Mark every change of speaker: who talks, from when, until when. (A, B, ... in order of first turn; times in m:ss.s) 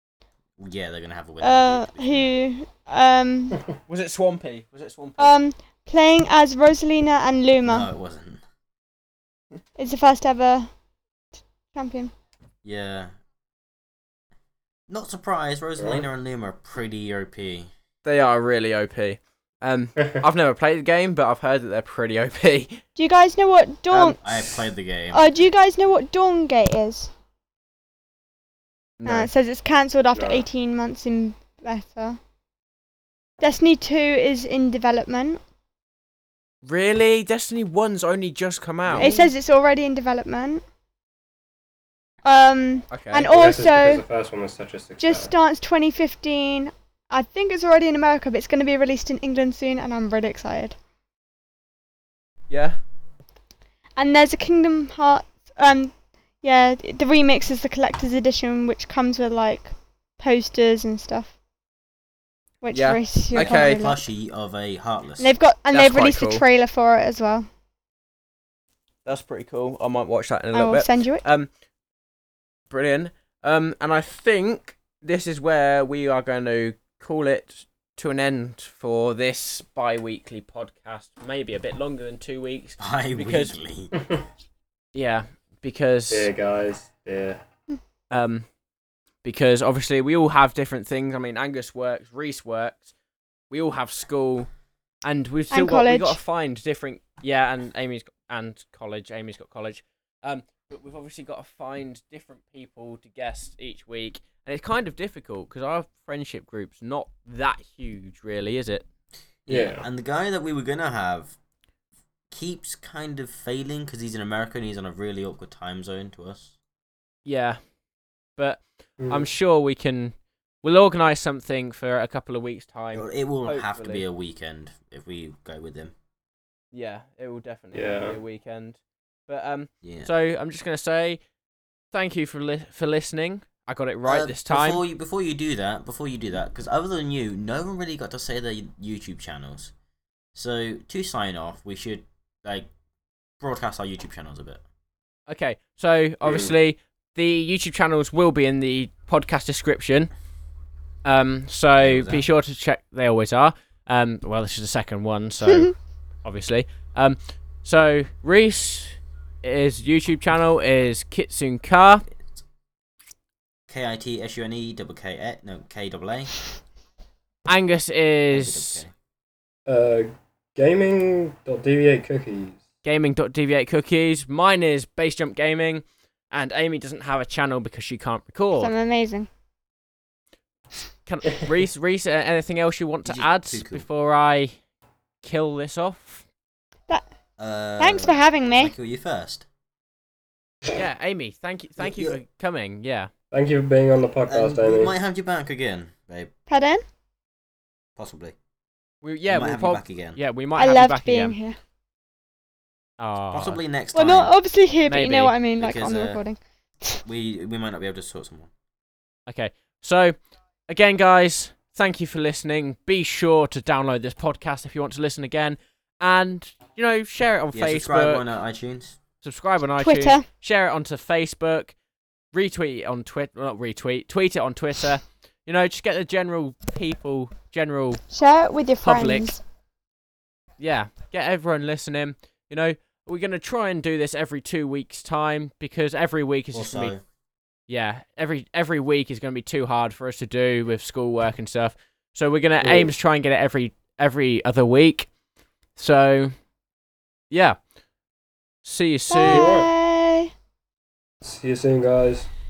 0:00.6-0:02.2 A
0:01.4-0:03.6 B
0:03.9-0:05.3 C
0:05.2-0:07.9 B
0:07.6-0:08.4 A
0:09.8-0:10.7 B
0:11.7-0:12.1 B
0:12.6-0:13.1 A
0:14.9-0:17.7 A
0:15.8-0:16.1 D
0:18.0-0:22.8 C
0:23.0-0:27.1 B
0:23.9-0:25.4 A
0:29.0-0:29.3 C
0:29.1-0:32.2 B
0:30.2-0:30.5 D
0:33.4-0:35.4 B
0:36.6-0:39.2 C
0:39.0-0:40.6 B
0:42.2-0:44.0 B
0:42.9-0:43.3 C
0:43.3-0:45.3 D
0:45.0-0:50.8 B
0:52.5-0:52.8 C
0:54.0-1:01.3 B
1:02.6-1:04.0 B
1:02.7-1:03.8 C
1:03.3-1:05.3 A
1:05.2-1:07.5 B
1:05.7-1:06.4 C
1:09.0-1:11.5 C
1:10.5-1:11.2 B
1:12.7-1:23.5 C
1:22.8-1:23.9 A
1:24.9-1:26.3 C
1:26.1-1:27.4 D
1:28.1-1:28.5 C
1:29.2-1:32.9 C
1:33.5-1:34.5 C
1:35.0-1:48.9 C
1:35.5-1:36.2 B
1:49.5-1:51.4 A
1:49.5-1:49.8 D
1:52.3-1:56.6 A
1:57.2-1:57.6 C
1:58.4-2:04.0 C
1:59.0-1:59.3 D
2:02.9-2:05.9 A
2:06.7-2:11.2 C
2:07.7-2:08.2 D
2:09.8-2:10.1 A
2:11.9-2:14.8 C
2:14.1-2:19.7 A
2:20.4-2:22.7 A
2:23.4-2:24.6 A
2:25.3-2:30.1 C
2:26.2-2:26.5 D
2:31.0-2:42.0 C
2:31.8-2:32.3 A
2:43.7-2:46.4 A
2:47.5-2:48.8 C
2:48.3-2:48.9 A
2:49.7-2:52.6 D
2:52.8-2:58.7 C
2:58.6-2:59.3 B
3:01.1-3:04.6 C
3:03.1-3:03.9 A
3:05.2-3:06.2 C
3:07.4-3:09.4 A
3:07.8-3:08.7 B
3:10.7-3:13.1 C
3:11.8-3:12.2 A
3:13.3-3:14.9 D
3:14.3-3:16.3 A
3:16.5-3:16.8 B
3:18.0-3:18.4 A
3:19.0-3:21.4 C
3:19.3-3:20.2 A
3:20.6-3:21.6 B
3:23.0-3:23.6 C
3:23.3-3:24.4 A
3:23.9-3:27.0 B
3:24.9-3:25.4 C
3:25.6-3:26.2 A
3:27.0-3:28.5 A
3:29.3-3:38.2 C
3:37.5-3:39.0 A
3:39.2-3:41.8 C
3:39.8-3:40.3 B
3:42.3-3:48.0 C
3:48.1-3:49.4 B
3:48.8-3:49.3 C
3:50.6-3:56.9 C
3:56.5-3:57.0 A
3:57.7-4:05.1 C
4:02.6-4:02.9 D
4:05.8-4:06.3 C
4:07.3-4:07.6 C
4:08.6-4:09.5 C
4:09.1-4:10.3 B
4:09.3-4:09.7 D
4:11.2-4:12.3 D